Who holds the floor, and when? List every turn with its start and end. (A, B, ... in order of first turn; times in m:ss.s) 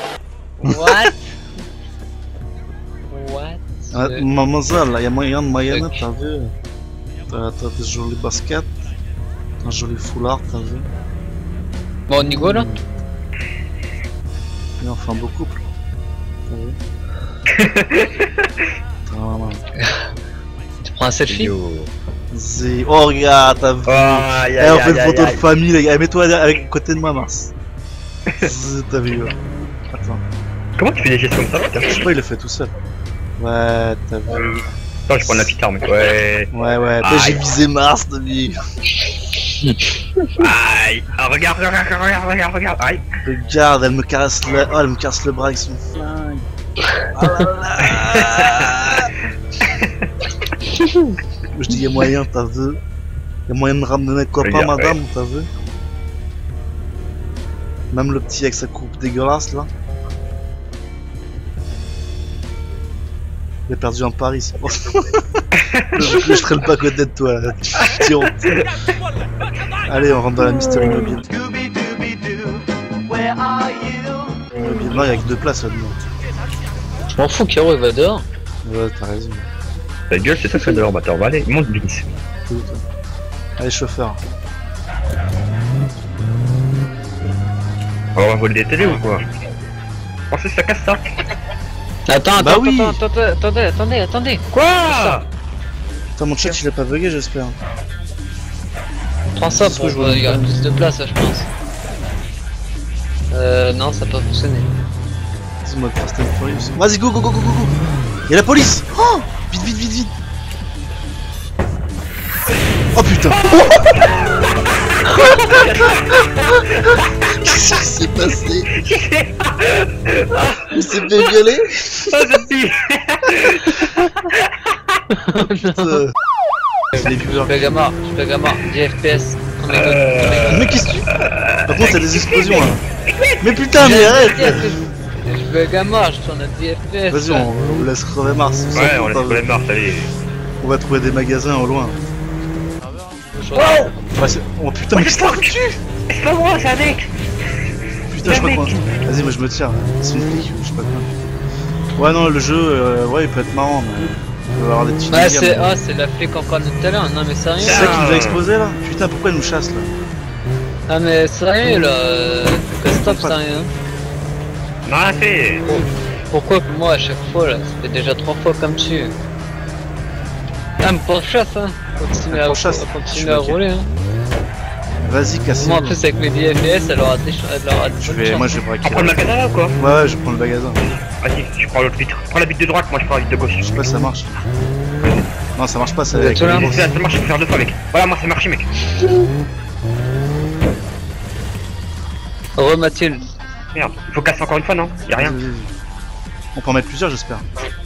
0:00.6-0:01.2 A
0:00.7-0:01.1 B
0:03.1-0:04.2 A
0:03.9-0:06.5 B
0:05.7-0:06.0 A
0:07.3-0:08.7 B
0:09.6-0:10.9 B
0:12.1-0:12.7 A
0:12.1-0:12.8 B
0:14.8-0:15.6 B
0:16.5-0:16.8 B
0:17.5-0:18.5 C
0:19.1-0:19.6 B
0:20.8-0:21.6 A
0:21.3-0:21.9 C
0:22.3-0:27.5 B
0:23.8-0:25.4 C
0:28.4-0:29.4 B
0:29.9-0:30.2 B
0:30.8-0:32.1 C
0:31.9-0:32.7 B
0:33.4-0:34.6 B
0:35.1-0:37.6 C
0:35.2-0:35.6 B
0:36.5-0:38.6 B
0:39.6-0:39.9 A
0:40.4-0:43.0 C
0:43.2-0:46.4 B
0:47.1-0:49.1 B
0:47.8-0:50.0 C
0:50.8-0:51.1 A
0:51.5-0:52.8 B
0:53.5-0:55.5 B
0:54.4-0:55.0 C
0:57.9-0:59.7 B
1:03.7-1:05.4 B
1:05.6-1:06.2 C
1:05.9-1:08.7 B
1:07.8-1:08.6 C
1:09.9-1:11.3 B
1:14.5-1:16.0 B
1:17.1-1:18.2 A
1:18.6-1:19.5 B
1:20.1-1:22.0 C
1:22.5-1:22.8 B
1:23.6-1:24.2 B
1:28.2-1:29.2 C
1:30.3-1:31.0 C
1:32.1-1:35.2 A
1:32.3-1:33.0 B
1:34.5-1:35.2 C
1:36.2-1:37.6 B
1:39.3-1:41.5 A
1:39.5-1:40.5 B
1:43.3-1:44.7 A
1:45.6-1:47.8 B
1:48.3-1:50.1 B
1:53.0-1:54.0 B
1:53.4-1:54.2 C
1:55.1-1:55.9 B
1:55.3-1:57.0 C
1:57.3-1:58.7 B
1:58.7-2:01.4 C
2:00.7-2:02.2 B
2:02.1-2:05.0 C
2:05.1-2:06.0 A
2:05.4-2:06.1 B
2:06.9-2:07.6 B
2:06.9-2:10.6 A
2:09.7-2:13.5 C
2:10.5-2:12.8 B
2:13.4-2:14.8 B
2:13.7-2:17.8 A
2:17.1-2:19.4 B
2:18.7-2:20.1 C
2:20.6-2:22.0 B
2:23.3-2:23.9 A
2:23.6-2:23.9 C
2:24.1-2:25.8 B
2:24.9-2:25.5 C
2:26.1-2:27.1 C
2:28.1-2:31.1 B
2:28.2-2:28.8 C
2:32.0-2:35.8 B
2:35.1-2:38.1 A
2:37.6-2:40.0 B
2:37.6-2:38.4 C
2:40.9-2:43.7 A
2:42.9-2:43.4 B
2:44.8-2:45.7 C
2:45.7-2:49.1 A
2:50.8-2:53.9 A
2:52.3-2:53.6 B
2:55.0-2:56.0 B
2:55.6-2:58.5 A
2:58.0-3:00.8 B
2:58.8-2:59.8 C
3:01.2-3:03.8 C
3:03.6-3:04.4 B
3:05.6-3:06.9 B
3:06.1-3:06.9 A
3:06.3-3:08.7 C
3:12.6-3:13.2 A
3:13.8-3:15.4 C
3:15.2-3:15.7 B
3:16.6-3:17.4 B